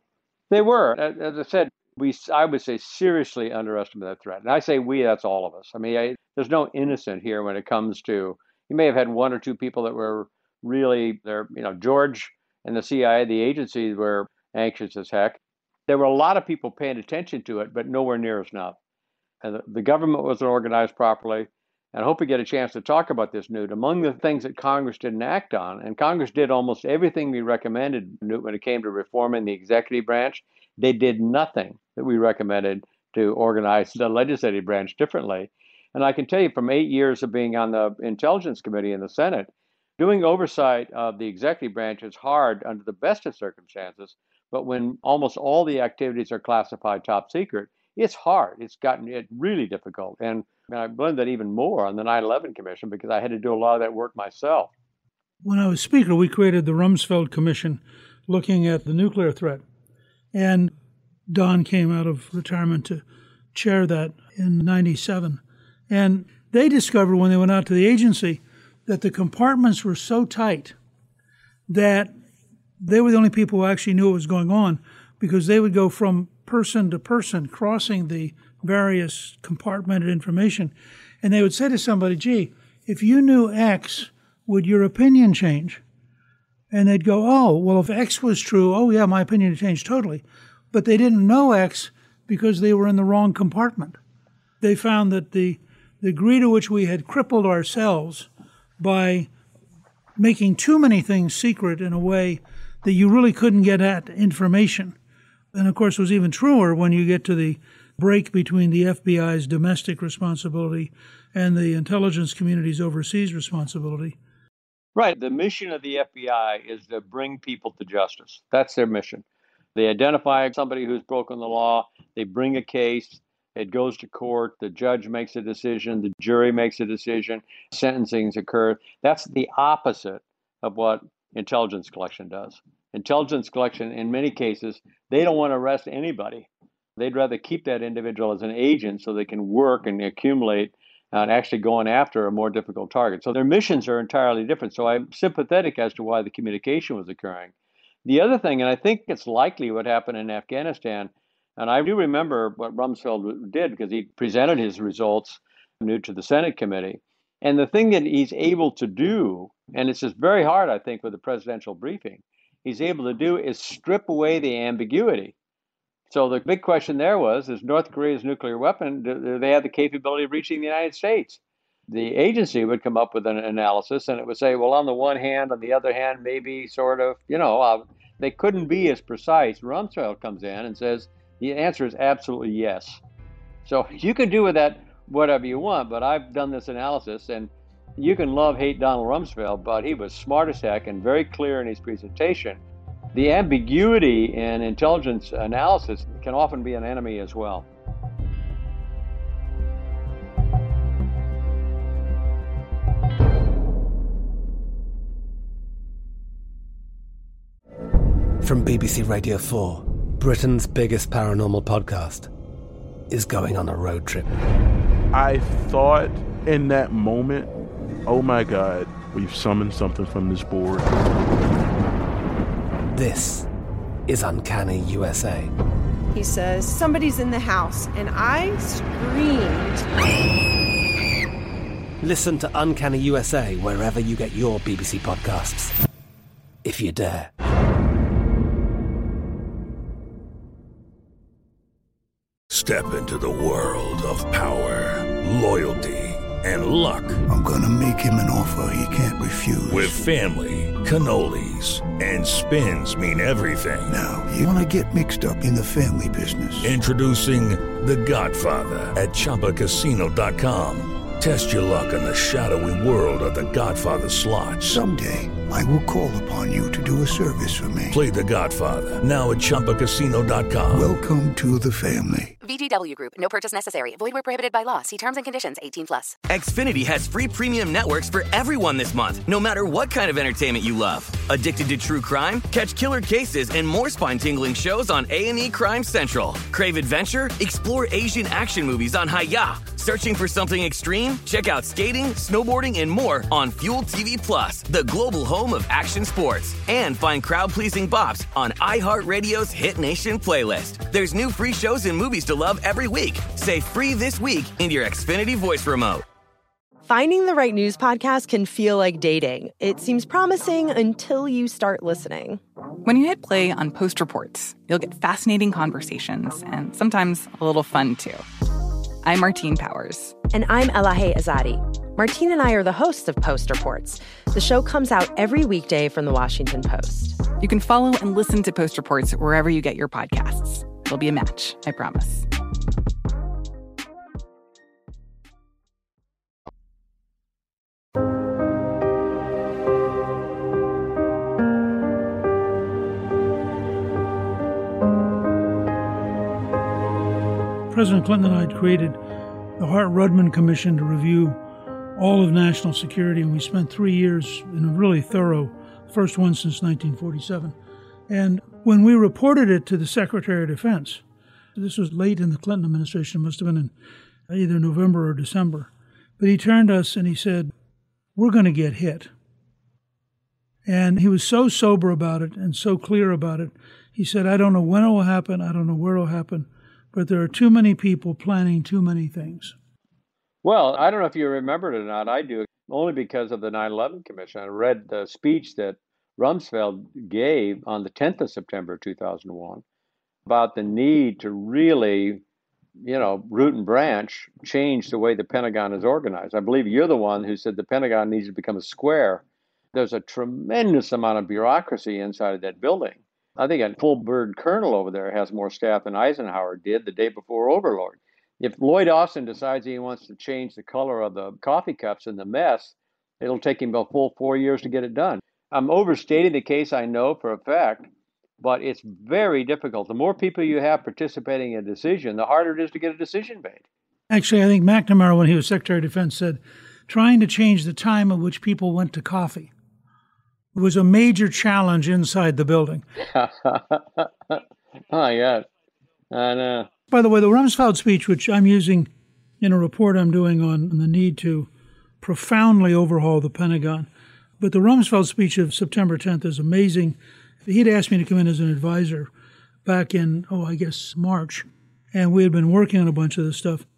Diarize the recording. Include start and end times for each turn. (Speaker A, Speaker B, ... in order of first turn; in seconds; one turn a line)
Speaker A: 0.5-18.8
Speaker A: 19.4-54.7
Speaker B: 55.4-59.6
Speaker B: 60.3-60.7
Speaker B: 61.3-70.7
Speaker B: 71.7-72.1
Speaker B: 72.8-85.8
Speaker B: 86.7-94.0
Speaker B: 94.6-99.3
Speaker B: 100.2-104.9
Speaker B: 105.5-114.2
Speaker A: 115.0-119.2
Speaker A: 119.7-147.5
Speaker A: 148.0-165.3
Speaker A: 166.1-183.0
Speaker A: 183.6-192.6
Speaker A: 193.1-197.7
Speaker C: 208.4-212.3
Speaker C: 213.1-214.3
Speaker D: 215.1-217.5
Speaker D: 218.1-220.9
Speaker C: 222.9-223.5
Speaker C: 224.1-225.5
Speaker E: 226.1-229.8
Speaker C: 232.0-235.7
Speaker C: 236.6-237.3
Speaker F: 242.5-247.2
Speaker G: 247.3-250.1
Speaker F: 249.7-254.0
Speaker G: 253.8-256.7
Speaker F: 256.6-264.8
Speaker G: 264.7-268.0
Speaker F: 267.9-270.9
Speaker G: 270.7-272.3
Speaker H: 272.4-276.1
Speaker I: 276.3-306.0
Speaker J: 306.9-312.4
Speaker K: 312.8-318.2
Speaker K: 319.0-320.1
Speaker J: 320.3-327.2
Speaker K: 327.4-332.3
Speaker B: 347.7-349.0
Speaker B: 349.6-351.4
Speaker B: 351.9-357.5
Speaker B: 358.1-361.0
Speaker B: 361.6-363.7
Speaker B: 364.3-367.5
Speaker B: 368.1-369.1
Speaker B: 370.6-379.5
Speaker A: 380.4-389.6
Speaker A: 390.2-392.2
Speaker A: 392.8-399.2
Speaker A: 399.7-417.9
Speaker A: 418.4-423.6
Speaker B: 424.1-429.5
Speaker B: 430.5-432.8
Speaker A: 433.0-434.4
Speaker A: 434.9-435.4
Speaker A: 436.1-436.7
Speaker B: 436.9-438.9
Speaker B: 439.4-441.5
Speaker B: 442.0-443.9
Speaker B: 444.4-449.1
Speaker B: 449.6-453.6